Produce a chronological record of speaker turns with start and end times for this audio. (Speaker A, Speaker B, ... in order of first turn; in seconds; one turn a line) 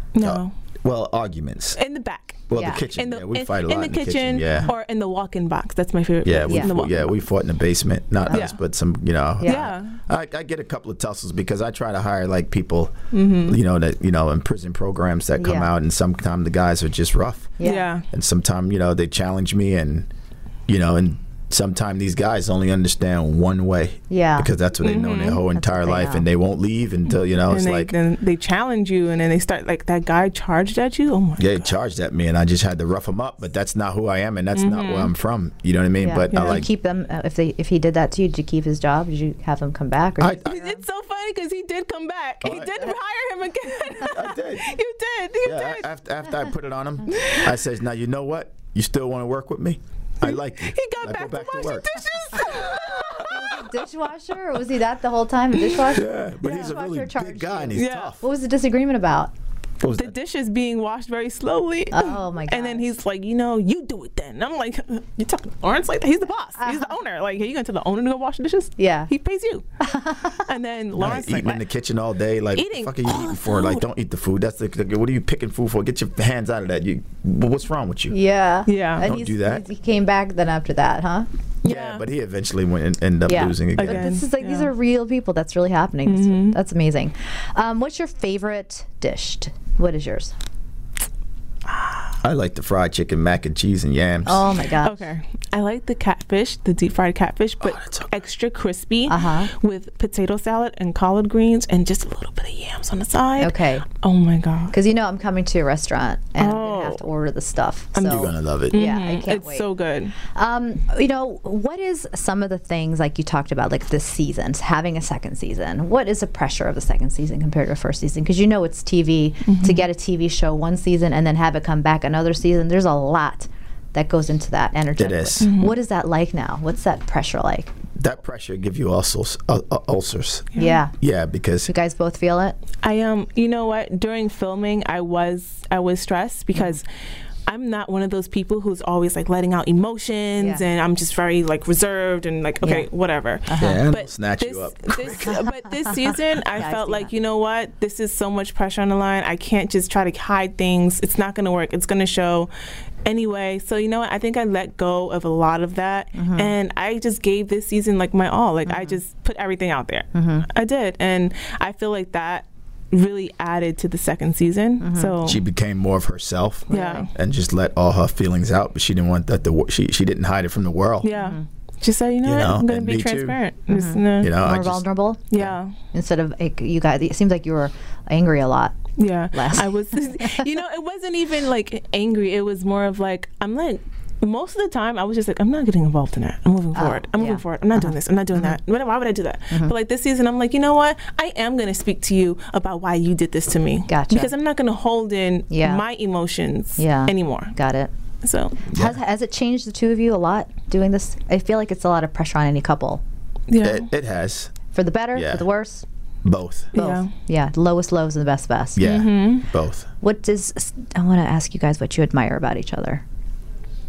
Speaker A: 0.1-0.5
Speaker B: 0.2-1.8
Speaker A: 1.8-7.2
Speaker B: 2.5-4.7
Speaker C: 2.5-2.9
Speaker B: 6.2-20.1
Speaker C: 8.3-8.5
Speaker A: 8.3-8.6
Speaker C: 9.4-9.7
Speaker A: 9.4-10.0
Speaker A: 13.1-13.6
Speaker C: 15.4-15.7
Speaker C: 17.6-17.9
Speaker A: 17.6-18.1
Speaker B: 20.7-27.9
Speaker C: 24.1-24.5
Speaker A: 24.8-25.4
Speaker C: 25.5-26.2
Speaker A: 27.5-31.8
Speaker B: 31.4-36.7
Speaker A: 34.5-35.1
Speaker C: 36.0-40.8
Speaker A: 36.3-36.6
Speaker B: 40.2-40.5
Speaker A: 40.5-45.9
Speaker B: 42.4-42.9
Speaker B: 44.0-44.7
Speaker B: 45.4-53.2
Speaker A: 47.1-47.5
Speaker A: 50.2-53.6
Speaker C: 53.2-59.3
Speaker B: 55.9-58.2
Speaker A: 56.4-56.7
Speaker A: 57.7-58.1
Speaker B: 59.8-60.1
Speaker A: 59.9-69.6
Speaker C: 61.9-62.9
Speaker C: 66.6-66.9
Speaker C: 68.8-69.1
Speaker C: 69.8-70.4
Speaker A: 70.3-71.6
Speaker B: 70.9-78.2
Speaker A: 72.5-73.8
Speaker C: 78.1-81.3
Speaker A: 78.7-79.0
Speaker B: 79.0-79.6
Speaker A: 81.6-82.0
Speaker B: 81.6-84.0
Speaker C: 83.3-90.3
Speaker A: 83.8-84.7
Speaker A: 86.0-86.6
Speaker A: 91.7-92.1
Speaker B: 92.2-94.5
Speaker C: 94.2-95.0
Speaker A: 94.8-104.7
Speaker B: 97.6-98.1
Speaker C: 99.1-99.5
Speaker C: 103.4-103.8
Speaker C: 104.7-109.7
Speaker A: 106.4-107.0
Speaker A: 107.9-110.2
Speaker B: 108.0-108.7
Speaker C: 110.2-127.7
Speaker A: 119.5-119.9
Speaker B: 125.0-125.5
Speaker A: 125.4-125.8
Speaker B: 128.0-131.7
Speaker A: 130.5-130.8
Speaker C: 130.6-130.9
Speaker C: 131.7-132.6
Speaker A: 132.8-136.9
Speaker A: 137.5-152.5
Speaker C: 143.5-143.8
Speaker B: 143.6-145.4
Speaker C: 145.9-147.1
Speaker A: 153.0-165.4
Speaker C: 156.2-156.5
Speaker C: 158.6-159.0
Speaker C: 160.1-160.4
Speaker C: 164.8-165.2
Speaker B: 165.2-171.1
Speaker C: 166.7-167.1
Speaker A: 166.7-167.1
Speaker A: 171.0-174.3
Speaker C: 171.1-171.4
Speaker B: 172.2-173.4
Speaker C: 173.7-175.2
Speaker B: 174.2-175.6
Speaker A: 175.3-175.7
Speaker C: 175.9-180.4
Speaker A: 179.0-197.6
Speaker C: 186.7-188.6
Speaker C: 193.9-194.3
Speaker C: 195.5-195.8
Speaker C: 196.8-197.9
Speaker A: 198.2-198.6
Speaker C: 198.6-203.0
Speaker B: 198.7-199.0
Speaker A: 203.5-203.9
Speaker B: 203.6-204.5
Speaker C: 204.7-205.8
Speaker B: 205.1-205.4
Speaker B: 206.2-206.7
Speaker A: 206.7-207.1
Speaker C: 206.7-208.8
Speaker B: 208.8-209.9
Speaker A: 208.8-209.4
Speaker C: 210.0-213.0